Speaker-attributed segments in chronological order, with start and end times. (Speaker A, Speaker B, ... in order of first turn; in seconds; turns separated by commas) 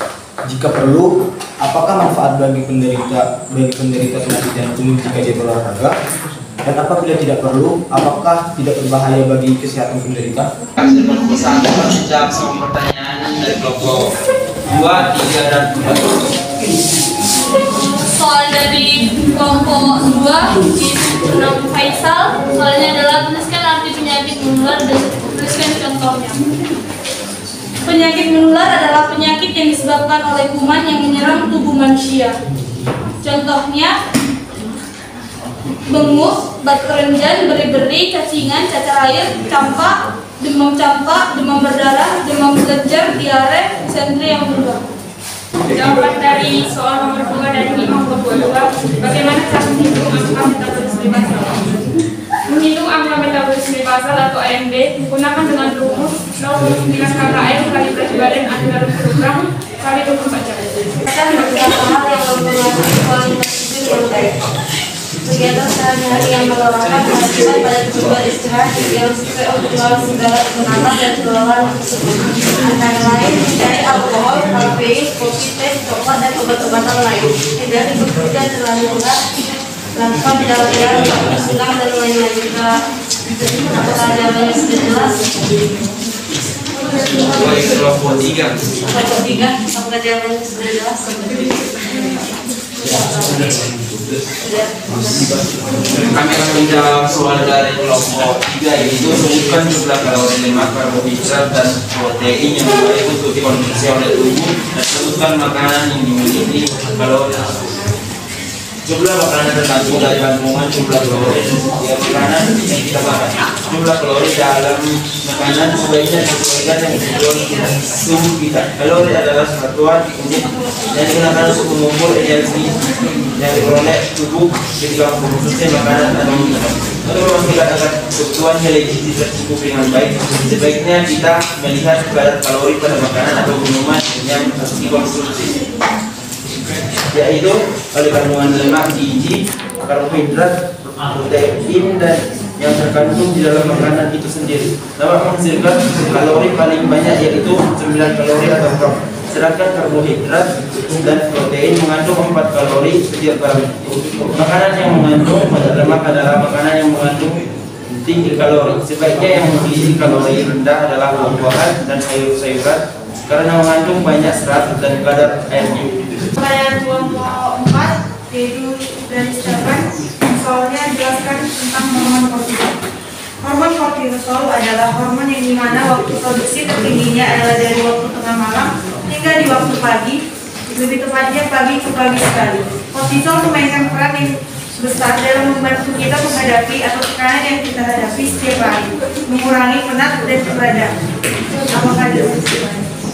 Speaker A: 0.5-5.9, Speaker A: 6.6-10.5, Speaker B: 10.8-14.0, Speaker B: 14.7-16.3, Speaker C: 17.7-26.4, Speaker C: 27.8-32.3, Speaker C: 33.2-33.9, Speaker C: 35.9-44.8, Speaker D: 45.7-51.7, Speaker D: 52.5-60.7, Speaker E: 61.1-64.3, Speaker E: 65.2-82.7, Speaker E: 83.6-85.2, Speaker B: 87.1-88.6, Speaker E: 88.9-92.2, Speaker E: 92.8-93.5, Speaker E: 94.4-95.4, Speaker B: 95.9-107.5, Speaker B: 108.8-122.8, Speaker B: 123.4-135.6, Speaker B: 137.1-150.5, Speaker B: 151.0-153.8, Speaker B: 154.3-157.4, Speaker B: 158.0-165.9, Speaker F: 166.4-172.7, Speaker F: 173.4-180.2, Speaker F: 180.7-190.9, Speaker F: 191.5-192.9